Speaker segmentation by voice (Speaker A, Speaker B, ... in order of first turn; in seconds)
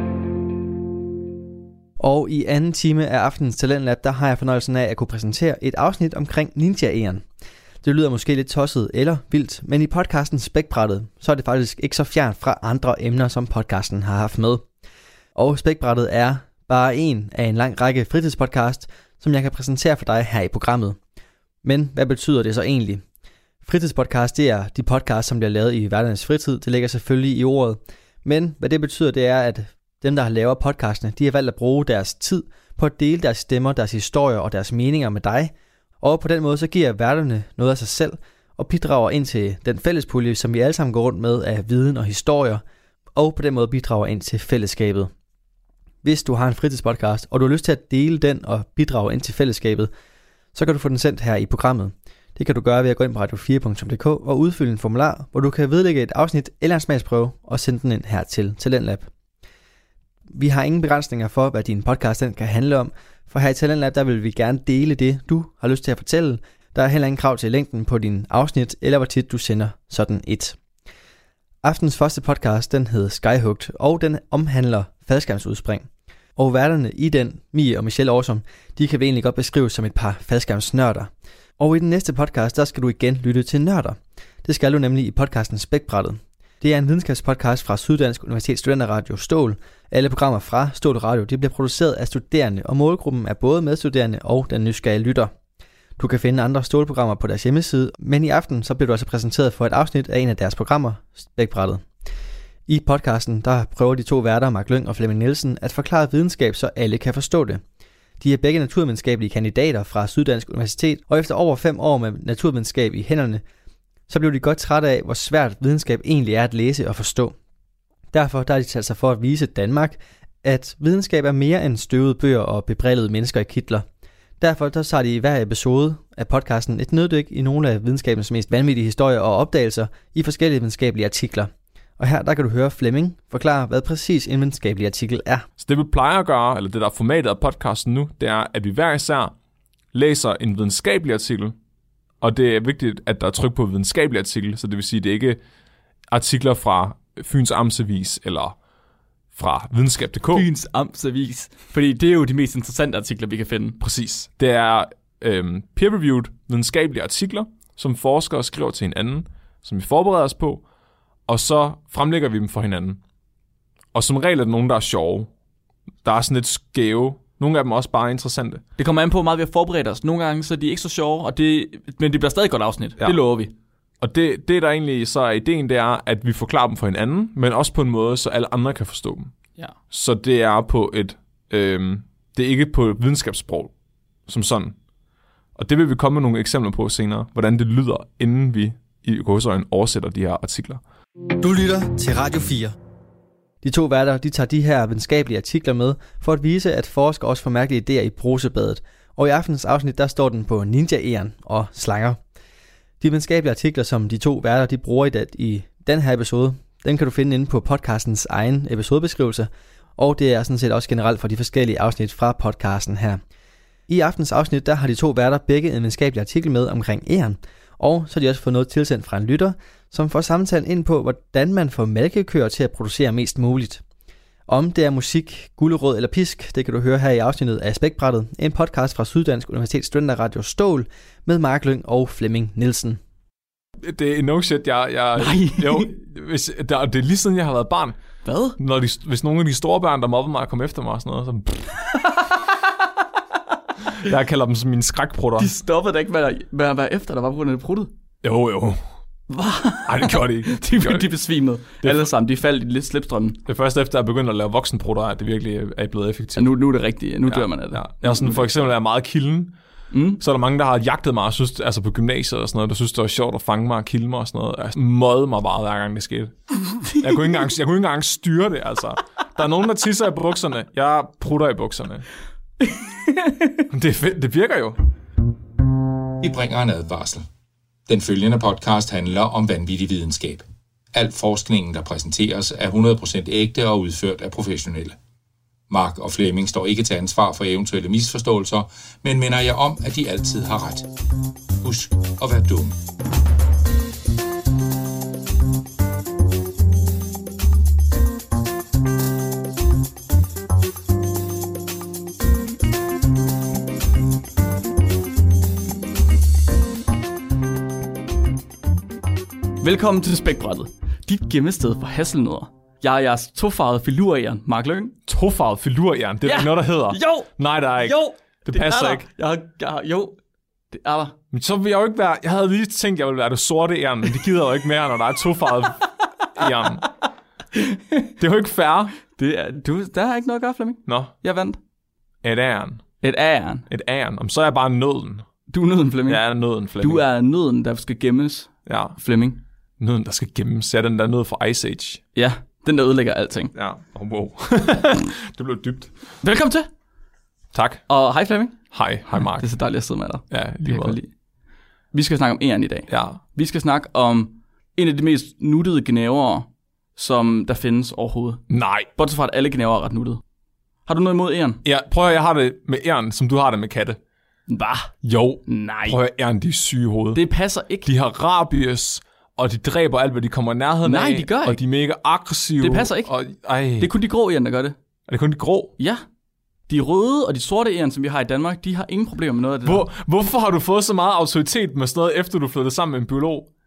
Speaker A: 2.0-7.2, 7.8-14.6, 15.3-21.0, 21.6-23.0, 23.6-42.6, 43.1-45.1, 46.0-49.9, 50.5-59.1, 60.3-70.6, 71.6-95.3, 96.0-101.8, 102.7-107.6, 108.2-113.4, 114.1-117.3, 118.1-123.8, 124.4-135.4, 191.4-192.7, 193.6-202.2, 203.0-213.2, 213.9-223.8, 224.5-233.0
Speaker B: 135.6-139.3, 139.9-141.5, 142.2-145.4, 146.1-148.5, 149.3-150.5, 153.8-160.6, 161.3-163.0, 163.9-165.3, 166.0-168.6, 174.0-179.3, 179.9-183.7, 184.3-184.7, 185.6-190.8, 233.8-237.9, 238.6-241.8, 244.0-245.5, 248.2-248.8, 249.8-251.1, 253.4-256.5, 257.2-259.5, 260.2-266.3, 266.8-272.1, 273.7-274.8, 315.1-319.0, 321.3-326.8, 328.2-328.9, 330.9-331.1, 332.2-332.8, 333.7-335.2, 336.1-337.0, 338.7-339.0, 339.8-342.0, 343.5-345.9, 347.5-347.8, 348.7-349.5, 350.3-351.0, 352.9-353.2, 358.5-358.9, 361.6-364.0, 365.0-367.2, 367.8-373.9, 375.1-375.7, 379.6-383.5
Speaker C: 150.3-153.8, 168.8-173.5, 235.2-235.9, 238.2-238.6, 241.9-242.2, 245.4-247.9, 249.3-253.4, 256.4-258.4, 259.9-260.2, 272.6-273.6, 309.6-314.9, 316.2-320.1, 320.7-321.1, 327.5-328.1, 329.1-331.6, 333.0-333.6, 335.5-336.2, 336.8-339.4, 342.1-343.5, 346.2-346.7, 347.9-348.6, 349.1-351.1, 351.9-358.4, 358.9-360.2, 360.9-361.6, 364.5-364.9, 365.5-366.0, 367.1-367.9, 370.8-371.6, 372.6-373.1, 373.8-374.8, 375.8-376.0, 376.7-379.8
Speaker D: 276.2-277.2, 277.9-284.9, 285.7-290.9, 291.6-292.8